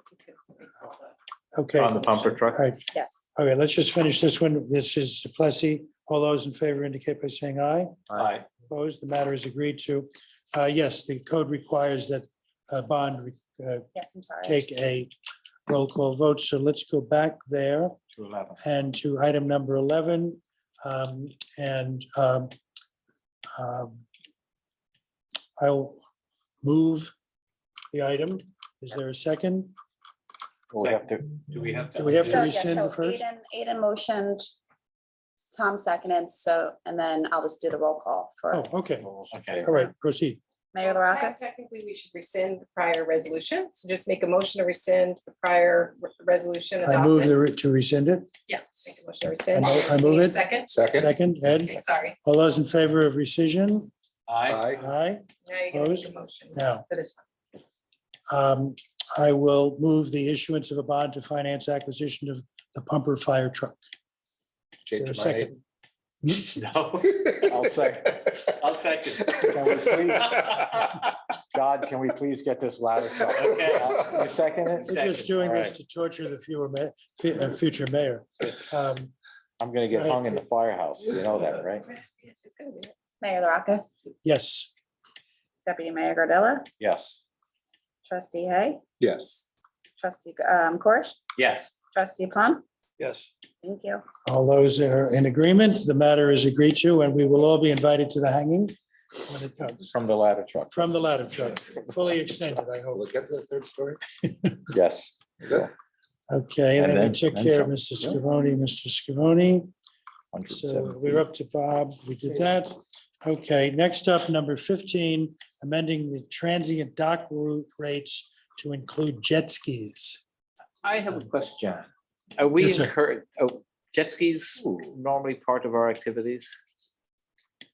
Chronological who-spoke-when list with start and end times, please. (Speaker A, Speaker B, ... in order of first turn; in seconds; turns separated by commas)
Speaker A: 1.5-8.1, Speaker B: 1.8-2.6, Speaker C: 2.9-3.2, Speaker A: 8.6-13.9, Speaker C: 13.9-14.6, Speaker A: 14.4-15.1, Speaker A: 15.7-18.0, Speaker B: 18.2-18.5, Speaker A: 18.6-22.5, Speaker A: 23.5-24.1, Speaker A: 25.6-26.0, Speaker A: 26.6-27.1, Speaker A: 27.9-29.7, Speaker D: 30.7-31.2, Speaker B: 30.8-32.6, Speaker A: 31.9-33.2, Speaker C: 32.2-34.5, Speaker C: 35.5-38.6, Speaker A: 38.5-40.4, Speaker D: 39.2-39.7, Speaker B: 39.3-39.7, Speaker C: 40.7-41.4, Speaker E: 40.8-47.4, Speaker A: 46.8-48.3, Speaker E: 48.5-50.8, Speaker A: 49.5-53.9, Speaker F: 50.7-51.1, Speaker E: 51.6-52.2, Speaker B: 54.3-54.7, Speaker F: 54.5-54.8, Speaker A: 54.7-56.9, Speaker E: 55.4-57.2, Speaker A: 58.3-63.8, Speaker F: 64.8-65.5, Speaker A: 64.9-65.6, Speaker B: 66.5-67.4, Speaker D: 67.3-68.4, Speaker B: 68.6-70.8, Speaker D: 69.3-71.0, Speaker D: 71.5-74.9, Speaker B: 73.3-75.8, Speaker A: 74.8-79.1, Speaker D: 79.6-81.9, Speaker A: 79.9-80.4, Speaker E: 82.0-82.9, Speaker C: 83.2-83.9, Speaker A: 84.2-84.7, Speaker C: 85.7-86.7, Speaker D: 86.8-87.2, Speaker C: 88.1-88.8, Speaker F: 89.0-89.5, Speaker C: 90.0-91.2, Speaker B: 91.3-91.7, Speaker C: 91.9-92.6, Speaker C: 93.6-94.0, Speaker A: 94.2-99.9, Speaker D: 99.9-101.0, Speaker A: 100.7-103.1, Speaker F: 103.0-104.0, Speaker D: 104.7-105.7, Speaker A: 106.3-109.7, Speaker D: 106.8-107.7, Speaker D: 110.3-111.2, Speaker A: 110.5-120.2, Speaker B: 120.8-126.6, Speaker A: 122.6-122.9, Speaker D: 124.6-124.9